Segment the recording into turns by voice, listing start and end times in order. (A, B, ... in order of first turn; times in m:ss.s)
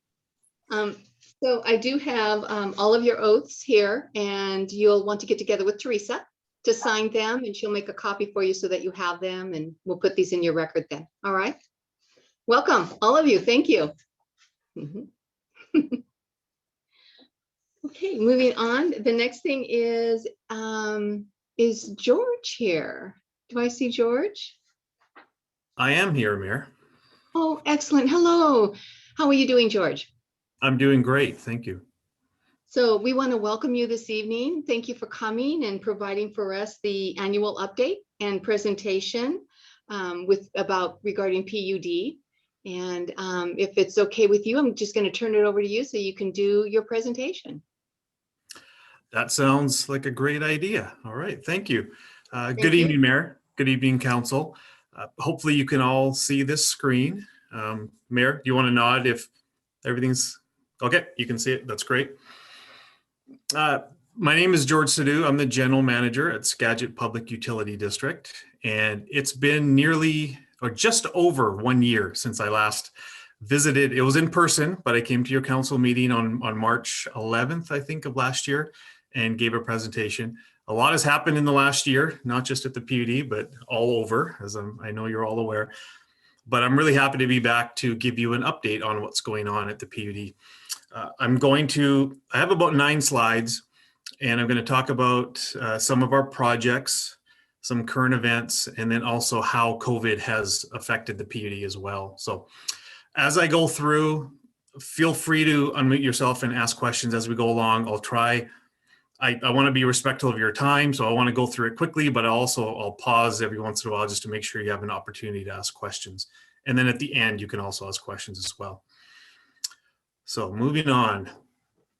0:00.7-0:11.6 A
0:12.5-0:13.9 A
0:14.8-0:15.1 A
0:15.7-0:16.0 A
0:17.8-0:24.6 A
0:25.8-0:26.7 B
0:27.3-0:30.1 A
0:30.6-0:31.8 B
0:32.7-0:47.6 A
0:49.1-0:59.3 B
0:52.6-0:53.0 A
0:59.8-1:02.1 B
1:03.5-1:25.7 B
1:26.5-1:30.4 B
1:30.9-1:33.6 B
1:34.2-1:42.5 B
1:43.1-1:48.5 B
1:49.2-1:58.8 B
2:00.3-2:01.3 B